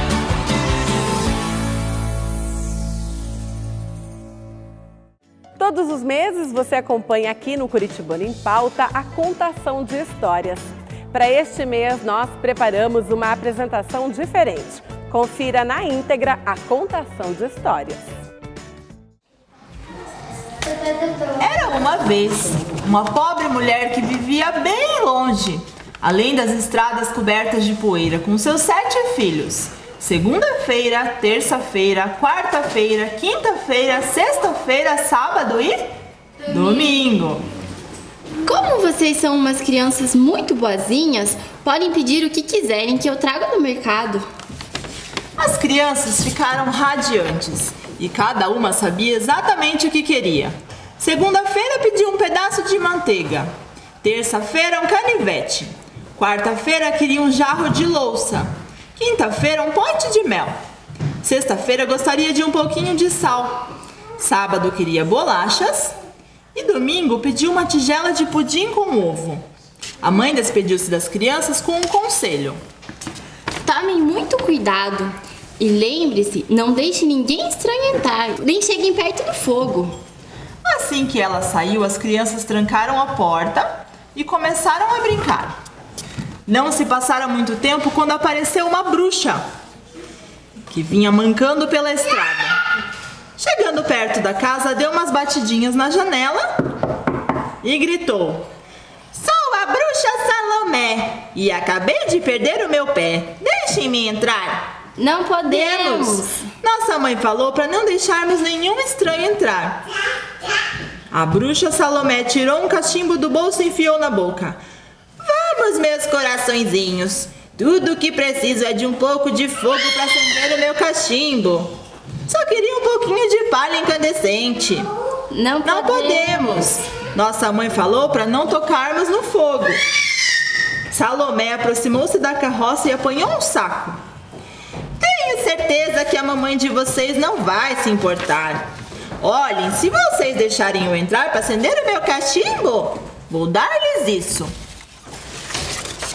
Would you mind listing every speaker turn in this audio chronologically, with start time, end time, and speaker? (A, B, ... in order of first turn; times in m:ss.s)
0:05.6-0:18.1 A
0:21.3-0:35.8 B
0:36.4-0:37.4 B
0:38.4-0:44.2 C
0:45.4-0:53.5 B
0:54.0-1:00.5 B
1:01.2-1:03.6 B
1:04.2-1:05.9 B
1:06.5-1:09.4 B
1:10.0-1:12.6 B
1:13.6-1:19.9 C
1:20.6-1:25.6 B
1:26.5-1:29.4 B
1:30.7-1:32.6 B
1:33.4-1:36.6 B
1:37.6-1:38.5 B
1:39.1-1:44.6 B
1:45.0-1:46.4 C
1:45.5-1:49.8 B
1:51.1-1:54.6 B
1:55.2-2:01.7 B
2:02.3-2:04.9 B
2:05.3-2:06.5 C
2:05.6-2:09.8 B
2:10.9-2:14.0 B
2:15.0-2:18.7 B
2:19.2-2:24.5 B